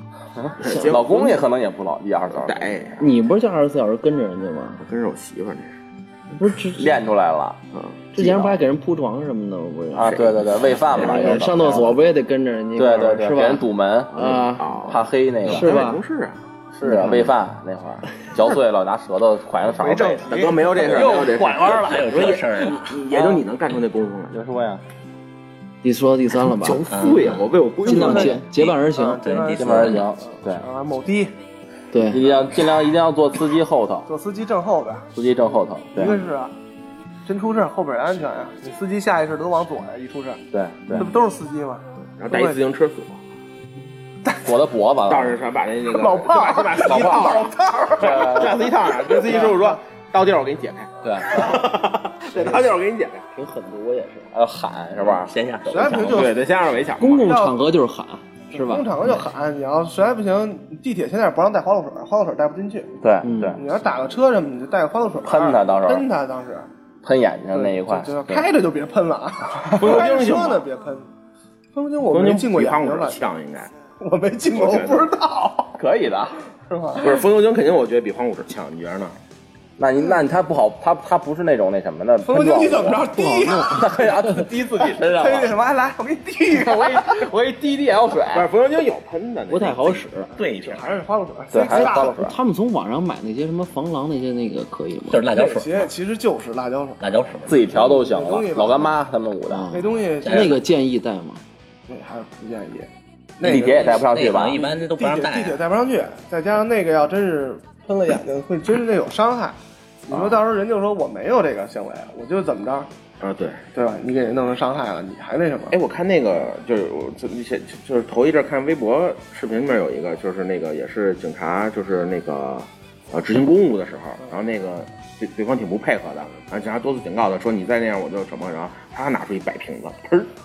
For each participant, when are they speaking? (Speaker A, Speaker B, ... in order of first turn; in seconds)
Speaker A: 0.3-2.7, 6.8-7.6, 8.2-8.6, 9.9-12.0, 12.8-15.8, 16.7-20.3, 23.1-23.4, 24.3-24.8, 29.6-30.6, 32.1-34.1, 35.1-36.2, 40.5-41.1, 44.4-45.4, 46.8-47.5, 48.0-48.7, 51.0-51.7, 54.3-55.3, 56.1-56.5, 63.0-63.6, 65.2-66.1, 67.0-68.5, 75.8-76.4, 79.8-83.1, 83.6-85.5, 86.5-88.5, 91.5-92.3, 97.5-99.8, 103.4-104.6
Speaker B: 0.6-1.4, 2.4-3.0, 4.8-5.8, 14.6-16.4, 20.3-24.4, 26.5-28.4, 42.2-43.2, 45.1-53.3, 56.1-57.3, 69.8-70.7, 72.1-73.7, 74.5-75.1, 77.0-79.2, 88.3-90.8, 113.2-113.7, 115.7-130.3
Speaker C: 3.0-4.8, 6.3-7.0, 7.8-14.8, 15.5-16.0, 16.9-17.3, 25.8-26.9, 27.8-29.3, 31.9-32.2, 53.3-54.3, 57.0-59.2, 63.2-63.6, 82.5-84.5, 89.5-90.3, 91.6-95.3, 99.5-101.4
Speaker D: 19.7-22.3, 27.9-31.4, 34.1-35.1, 36.0-36.5, 37.3-42.6, 45.9-49.8, 55.7-56.4, 57.2-57.6, 58.5-62.9, 63.5-66.7, 67.5-71.1, 71.8-73.2, 74.0-75.7, 76.7-77.2, 82.2-83.9, 84.8-87.3, 90.7-92.2, 95.3-97.0, 97.7-99.0, 99.7-100.6, 101.9-109.6, 110.1-112.9, 113.7-115.8
Speaker E: 21.7-22.9, 26.9-27.4, 28.3-30.1, 55.2-56.3, 90.4-90.9, 95.1-95.9, 97.0-97.8, 100.2-100.6, 104.0-105.6